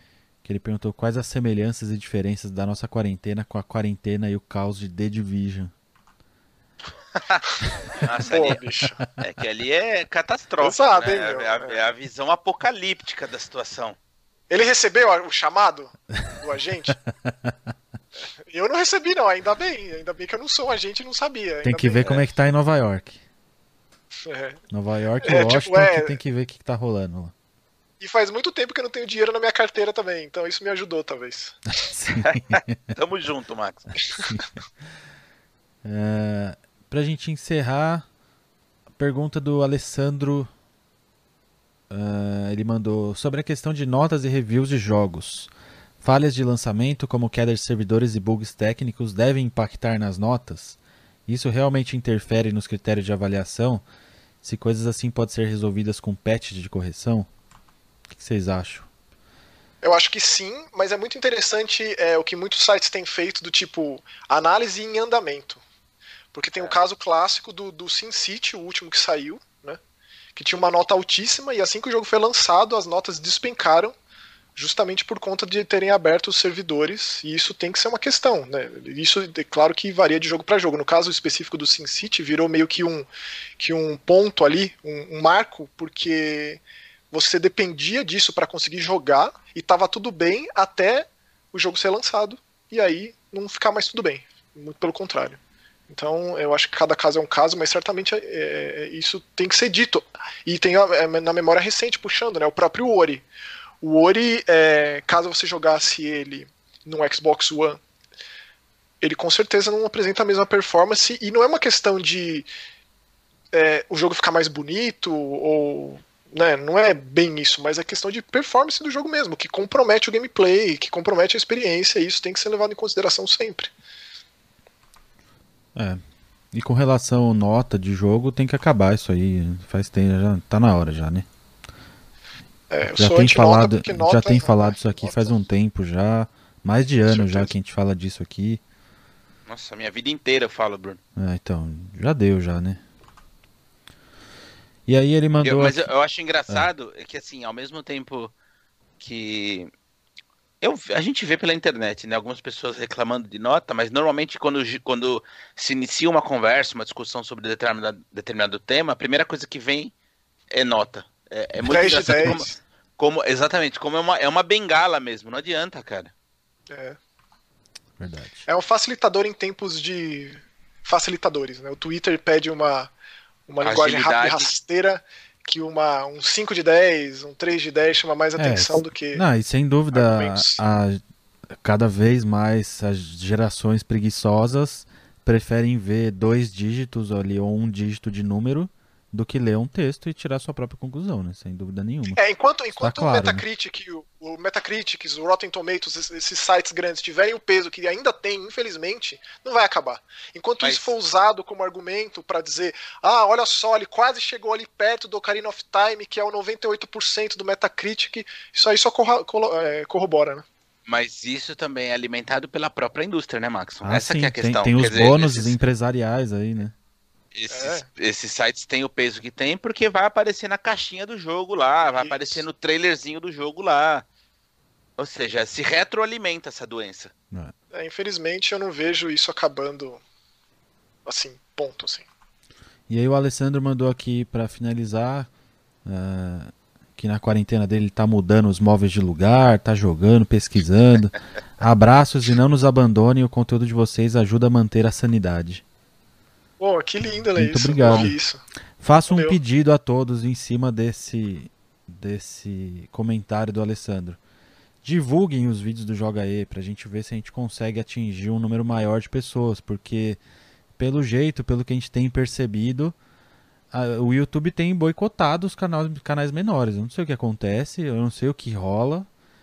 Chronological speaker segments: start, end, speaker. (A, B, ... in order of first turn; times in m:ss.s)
0:00.4-0:05.7 A
0:07.2-0:08.6 B
0:08.2-0:09.0 C
0:09.2-0:14.0 B
0:10.6-0:11.8 C
0:14.5-0:16.9 C
0:17.1-0:17.5 A
0:18.4-0:22.1 C
0:21.6-0:23.2 A
0:24.2-0:24.6 C
0:24.7-0:27.3 A
0:25.2-0:26.2 C
0:28.0-0:31.6 C
0:31.8-0:32.8 A
0:32.2-0:34.0 B
0:34.2-0:34.5 A
0:35.8-0:38.0 A
0:39.0-0:40.5 A
0:41.9-0:45.5 A
0:46.0-0:53.8 A
0:54.4-0:57.3 A
0:58.1-0:58.9 A
0:59.8-1:05.6 C
1:06.3-1:09.8 C
1:10.3-1:13.9 C
1:14.6-1:43.2 C
1:43.8-1:47.8 C
1:49.0-1:52.5 C
1:53.5-2:03.7 C
2:06.5-2:11.3 A
2:12.7-2:15.4 C
2:12.9-2:18.6 A
2:17.0-2:17.5 C
2:19.5-2:21.0 B
2:21.2-2:22.8 A
2:24.9-2:25.8 A
2:25.4-2:28.3 B
2:29.0-2:29.7 B
2:30.6-2:39.9 B
2:40.5-2:42.5 B
2:41.6-2:42.6 C
2:43.0-2:46.1 B
2:46.7-2:47.0 C
2:48.0-2:48.4 A
2:48.4-2:52.9 C
2:53.5-2:59.2 C
2:53.6-2:54.5 B
2:58.4-3:01.0 A
2:59.9-3:00.6 C
3:01.6-3:12.2 A
3:12.2-3:30.4 C
3:12.8-3:13.4 A
3:20.6-3:20.9 B
3:30.8-3:35.6 B
3:33.8-3:36.7 A
3:37.3-3:44.0 B
3:37.5-3:37.8 C
3:41.9-3:42.4 C
3:45.0-3:47.1 B
3:47.7-3:50.0 C
3:51.0-3:52.1 C
3:52.9-3:55.3 A
3:55.8-4:05.6 A
4:06.6-4:08.4 C
4:07.3-4:08.1 A
4:08.8-4:14.2 A
4:09.1-4:09.4 C
4:14.8-4:20.2 A
4:20.8-4:22.9 A
4:23.7-4:29.1 A